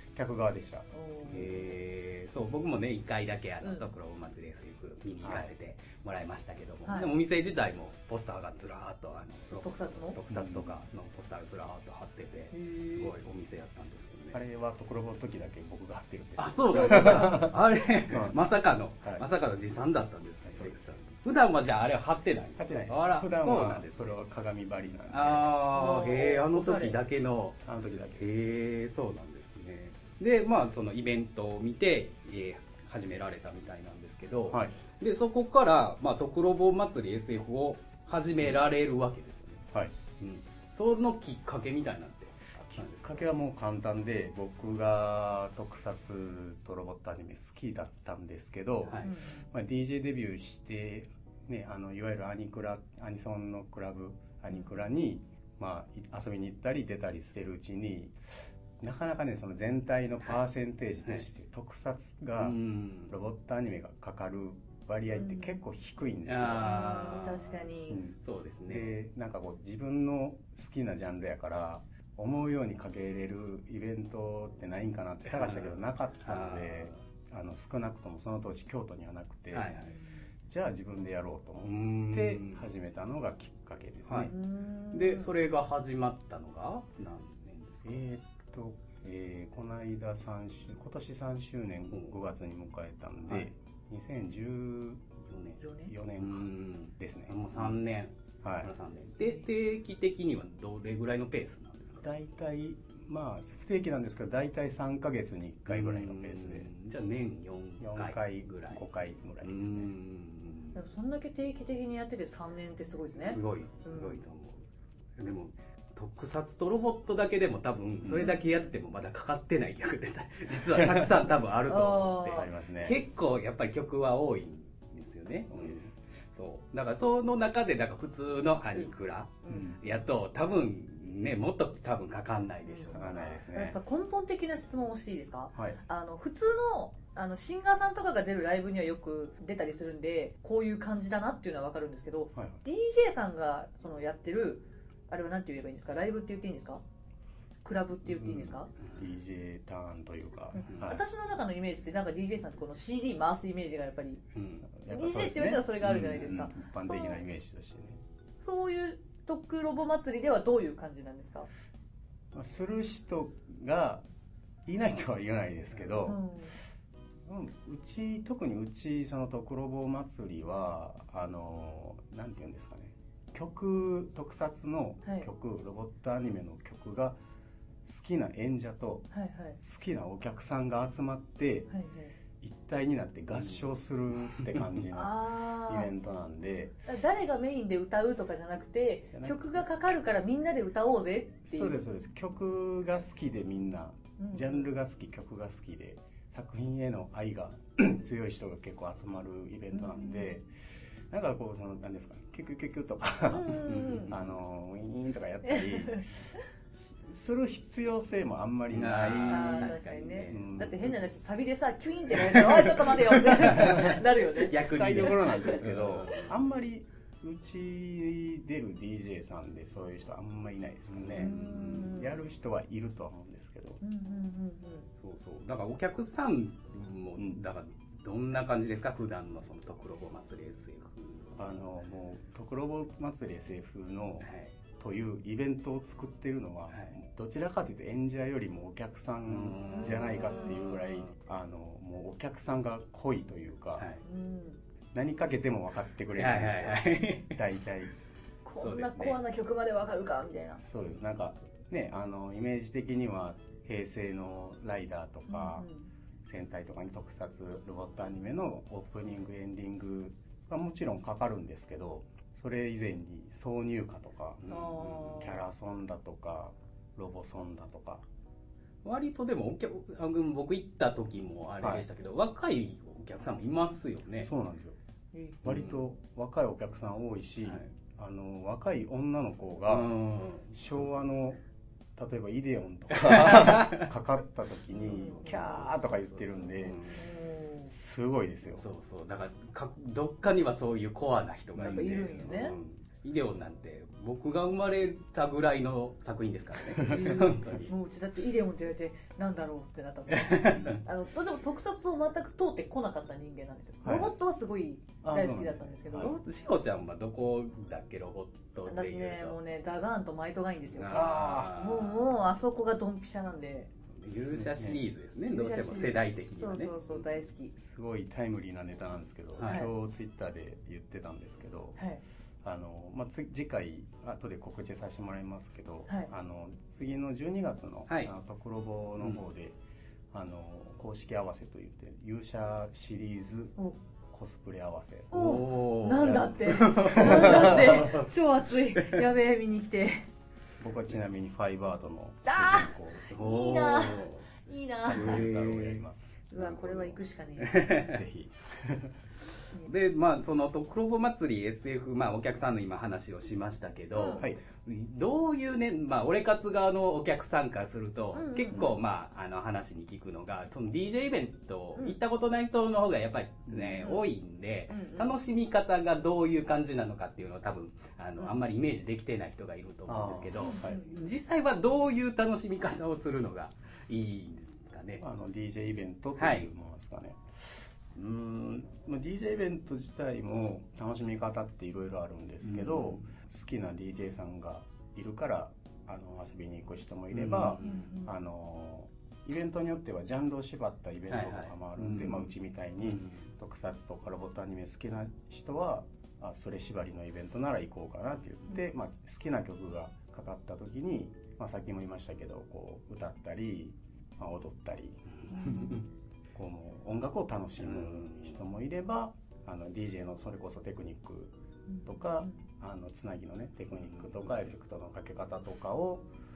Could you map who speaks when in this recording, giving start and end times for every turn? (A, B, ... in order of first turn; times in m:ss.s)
0:00.1-0:01.7 A
0:00.9-0:01.7 B
0:01.3-0:14.4 C
0:03.6-0:03.9 B
0:05.2-0:05.5 A
0:09.5-0:10.2 B
0:10.3-0:10.8 A
0:12.5-0:13.2 B
0:14.3-0:18.4 A
0:16.4-0:24.0 C
0:16.7-0:17.5 B
0:20.5-0:20.9 A
0:22.6-0:25.6 A
0:25.1-0:27.6 C
0:25.7-0:27.0 B
0:27.6-0:28.5 A
0:28.1-0:39.7 C
0:34.5-0:34.8 A
0:40.2-0:43.3 C
0:42.6-1:06.8 A
0:49.0-0:49.5 B
0:54.5-0:54.8 B
1:02.4-1:03.1 C
1:05.1-1:05.6 B
1:06.3-1:07.6 C
1:06.6-1:08.0 B
1:07.9-1:19.8 A
1:08.2-1:08.9 C
1:15.3-1:17.0 C
1:19.5-1:20.0 C
1:20.5-1:24.3 A
1:21.6-1:22.7 C
1:24.1-1:24.3 C
1:24.3-1:25.3 B
1:24.9-1:28.0 C
1:27.9-1:35.0 A
1:35.3-1:35.6 C
1:35.6-1:35.9 B
1:35.9-1:37.8 A
1:36.2-1:42.1 C
1:38.4-1:38.7 A
1:42.0-1:46.7 A
1:45.7-1:48.8 C
1:47.8-1:49.9 A
1:49.4-1:50.8 C
1:50.8-1:54.2 B
1:53.2-1:54.6 C
1:55.2-2:13.4 C
1:58.1-1:58.7 B
2:00.7-2:01.1 A
2:01.7-2:02.5 B
2:02.3-2:03.0 A
2:05.5-2:05.8 A
2:09.4-2:09.7 B
2:09.5-2:09.8 A
2:12.7-2:26.8 B
2:12.9-2:13.8 A
2:27.6-2:28.7 B
2:28.1-2:31.0 A
2:30.5-2:34.2 B
2:34.4-2:34.7 C
2:34.7-2:38.0 A
2:34.9-2:37.2 B
2:38.4-2:41.5 B
2:42.3-2:44.0 A
2:44.7-2:46.2 A
2:46.1-2:46.6 B
2:47.3-2:57.2 A
2:57.8-2:59.1 A
2:59.1-2:59.6 B
2:59.6-3:01.7 A
3:01.7-3:02.2 B
3:02.4-3:06.8 A
3:04.9-3:05.9 B
3:06.9-3:11.8 B
3:09.1-3:09.5 A
3:11.5-3:20.5 A
3:14.2-3:14.7 B
3:19.7-3:20.3 B
3:21.1-3:31.1 A
3:23.2-3:24.1 B
3:23.6-3:24.2 C
3:25.4-3:26.0 B
3:28.7-3:30.4 C
3:29.3-3:34.6 B
3:33.2-3:36.3 C
3:33.4-3:34.0 A
3:34.5-3:43.8 A
3:40.9-3:41.4 C
3:41.1-3:42.2 B
3:43.8-3:44.9 B
3:45.0-3:51.5 C
3:51.4-4:03.9 A
3:54.2-3:54.5 C
3:59.3-4:01.1 C
3:59.7-4:00.6 B
4:03.8-4:04.0 C
4:04.0-4:04.6 B
4:04.9-4:07.9 A
4:06.2-4:07.4 C
4:08.4-4:10.6 B
4:08.6-4:09.2 C
4:10.6-4:15.7 A
4:15.3-4:15.9 B
4:16.2-4:28.0 A
4:24.4-4:24.9 C
4:24.5-4:25.4 B
4:28.8-4:34.3 C
4:34.2-4:34.8 A
4:35.1-4:35.4 B
4:35.4-4:39.9 A
4:35.4-4:35.8 C
4:39.7-4:41.0 C
4:40.5-4:41.4 A
4:42.0-4:46.9 A
4:42.9-4:43.9 C
4:44.7-4:45.7 B
4:44.9-4:47.0 C
4:46.9-4:47.7 B
4:47.7-4:48.7 A
4:48.6-4:57.7 C
4:51.6-4:52.6 B
4:51.6-4:52.2 A
4:56.8-5:06.2 B
5:00.1-5:00.8 C
5:03.8-5:04.1 A
5:05.0-5:06.2 A
5:06.0-5:09.4 C
5:08.7-5:13.7 B
5:10.7-5:12.0 C
5:10.9-5:11.6 A
5:13.9-5:16.9 C
5:14.3-5:14.8 A
5:15.3-5:17.5 B
5:17.6-5:21.8 A
5:19.4-5:19.7 C
5:19.4-5:19.7 B
5:22.4-5:29.6 A
5:30.1-5:33.6 A
5:34.1-5:35.2 A
5:35.1-5:40.1 B
5:35.1-5:38.1 C
5:37.0-5:37.9 A
5:38.7-5:39.0 C
5:40.6-5:43.1 A
5:42.2-5:45.3 B
5:43.1-5:44.2 C
5:44.8-5:46.4 A
5:44.9-5:45.8 C
5:46.3-5:47.8 B
5:46.4-5:48.1 C
5:47.8-5:48.9 A
5:49.6-6:15.0 C
5:54.0-5:54.2 B
5:58.1-5:58.8 B
6:03.5-6:03.8 A
6:03.8-6:04.0 B
6:04.7-6:05.1 B
6:09.9-6:10.9 A
6:10.4-6:10.9 B
6:15.0-6:45.0 A
6:16.2-6:16.5 C
6:22.4-6:23.1 C
6:27.1-6:27.8 C
6:27.6-6:28.1 B
6:31.1-6:32.3 C
6:32.8-6:33.2 C
6:45.3-6:45.8 B
6:45.3-6:45.8 C
6:46.3-6:51.3 A
6:47.6-6:48.4 C
6:51.7-6:52.4 B
6:51.8-6:56.0 A
6:53.8-6:54.1 C